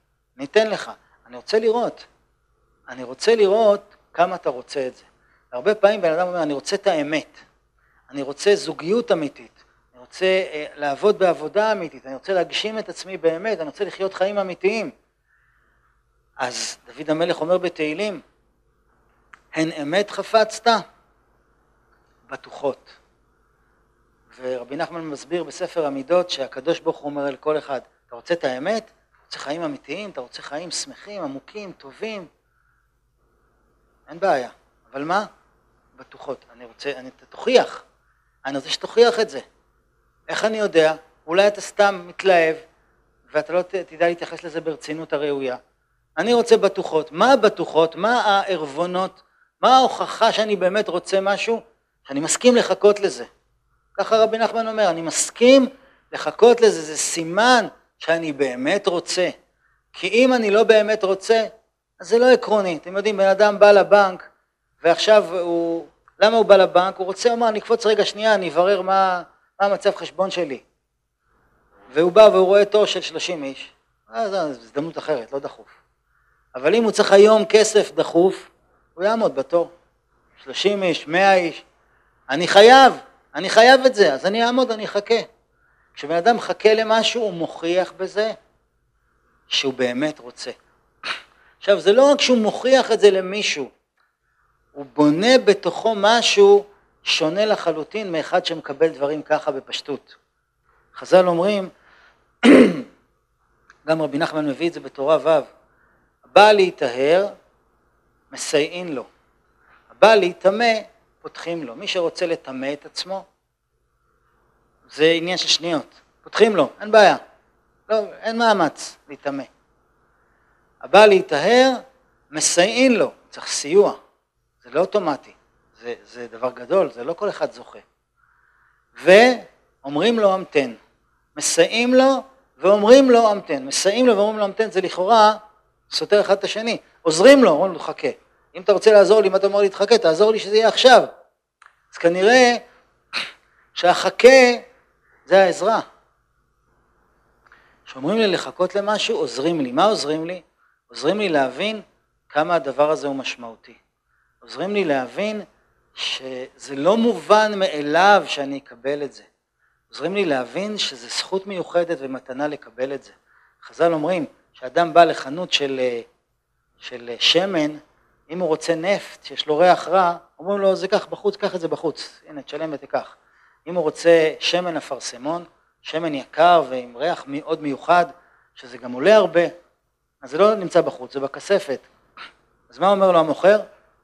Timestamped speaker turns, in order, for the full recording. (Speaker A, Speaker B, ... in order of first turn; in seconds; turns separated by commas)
Speaker A: 0.4-2.1, Speaker A: 2.9-7.4, Speaker A: 8.1-14.9, Speaker A: 16.4-18.2, Speaker A: 19.5-20.8, Speaker A: 22.3-22.9, Speaker A: 24.3-32.3, Speaker A: 34.1-35.3, Speaker A: 36.0-37.9, Speaker A: 38.5-39.4, Speaker A: 40.3-42.6, Speaker A: 43.3-45.6, Speaker A: 46.2-53.3, Speaker A: 54.0-59.3, Speaker A: 59.9-64.3, Speaker A: 64.8-70.6, Speaker A: 71.9-75.7, Speaker A: 76.5-79.7, Speaker A: 80.4-81.6, Speaker A: 82.3-85.3, Speaker A: 86.0-88.3, Speaker A: 89.5-90.5, Speaker A: 91.6-93.7, Speaker A: 94.7-100.2, Speaker A: 100.9-101.7, Speaker A: 102.4-102.9, Speaker A: 103.8-105.5, Speaker A: 106.3-107.3, Speaker A: 108.3-109.1, Speaker A: 109.9-113.2, Speaker A: 114.9-117.2, Speaker A: 117.9-119.5, Speaker A: 120.8-124.0, Speaker A: 124.6-127.8, Speaker A: 128.9-130.8, Speaker A: 131.4-141.1, Speaker A: 141.9-142.6, Speaker A: 143.7-144.7, Speaker A: 145.3-145.8, Speaker A: 147.9-153.8, Speaker A: 154.4-155.4, Speaker A: 155.9-159.3, Speaker A: 159.9-166.1, Speaker A: 166.8-173.1, Speaker A: 173.7-179.5, Speaker A: 180.2-181.8, Speaker A: 182.7-183.6